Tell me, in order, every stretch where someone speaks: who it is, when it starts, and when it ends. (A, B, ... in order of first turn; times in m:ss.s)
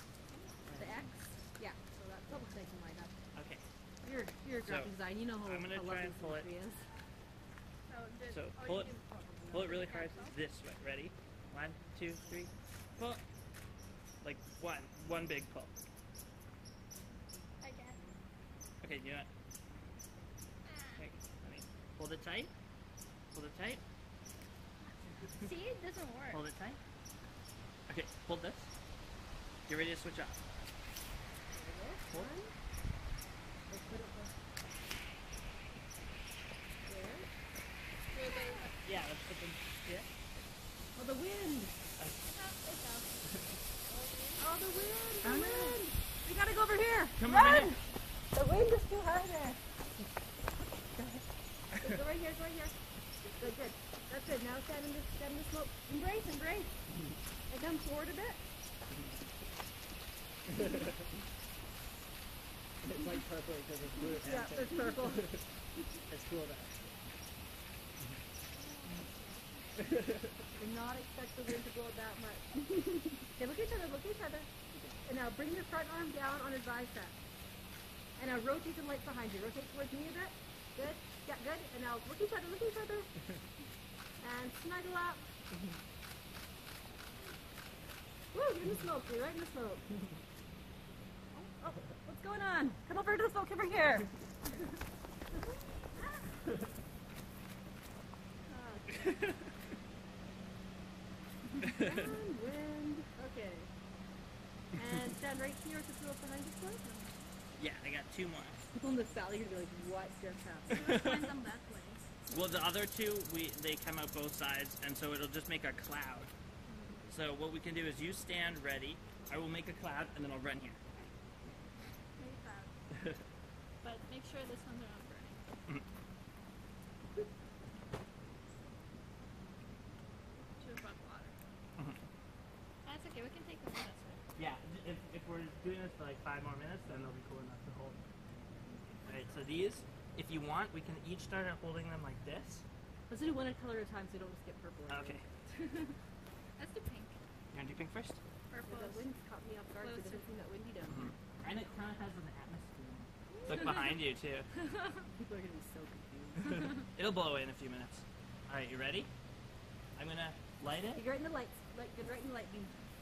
0:00.3-0:00.6 A
0:00.6-0:01.0 B
0:00.8-0:03.1 C
0:03.3-0:03.6 B
0:04.0-0:06.9 C
0:04.6-0:04.9 B
0:05.4-0:06.5 B
0:07.8-0:10.4 A
0:08.3-0:08.9 B
0:09.5-0:13.2 B
0:14.2-0:15.8 B
0:17.6-0:18.0 A
0:18.8-0:19.3 B
0:21.0-0:22.5 B
0:23.3-0:23.8 B
0:25.4-0:26.4 A
0:26.3-0:26.8 B
0:27.9-0:28.7 B
0:29.7-0:30.4 B
0:31.5-0:32.5 C
0:33.7-0:34.3 C
0:36.8-0:37.3 C
0:38.1-0:38.7 A
0:38.3-0:38.6 C
0:38.8-0:40.1 B
0:41.0-0:41.8 C
0:42.2-0:43.2 A
0:43.9-0:44.5 A
0:44.4-0:47.8 C
0:45.2-0:45.8 B
0:47.2-0:47.8 B
0:48.3-0:49.6 C
0:51.0-0:51.2 B
0:51.8-0:52.8 C
0:53.4-0:56.7 C
0:57.5-0:58.4 C
1:02.8-1:05.4 B
1:04.2-1:05.3 C
1:06.1-1:06.8 B
1:08.6-1:09.7 A
1:09.9-1:10.2 B
1:10.6-1:14.5 C
1:15.0-1:17.2 C
1:18.2-1:23.1 C
1:24.2-1:25.3 C
1:28.3-1:29.9 C
1:31.3-1:34.1 C
1:38.5-1:39.2 A
1:39.0-1:39.3 B
1:41.7-1:43.7 C
1:44.7-1:46.9 C
1:46.8-1:47.3 A
1:47.6-1:48.6 B
1:48.7-1:51.0 C
1:50.7-1:52.1 A
1:50.7-1:51.2 B
1:52.3-1:56.3 B
1:56.7-1:57.0 C
1:57.1-2:00.8 B
2:02.2-2:02.7 A
2:03.8-2:05.4 A
2:10.6-2:11.4 A
2:12.9-2:14.2 A
2:14.4-2:18.0 B
2:18.6-2:19.4 A
2:19.1-2:22.6 B
2:23.1-2:25.4 C
2:24.9-2:25.2 B
2:25.6-2:25.8 A
2:26.6-2:27.2 A
2:27.5-2:28.2 B
2:28.5-2:29.1 A
2:28.6-2:31.1 C
2:29.8-2:30.3 A
2:30.9-2:34.5 B
2:33.3-2:33.8 C
2:34.6-2:35.0 A
2:35.2-2:36.8 C
2:36.4-2:39.1 B
2:40.0-2:41.0 B
2:40.9-2:42.8 C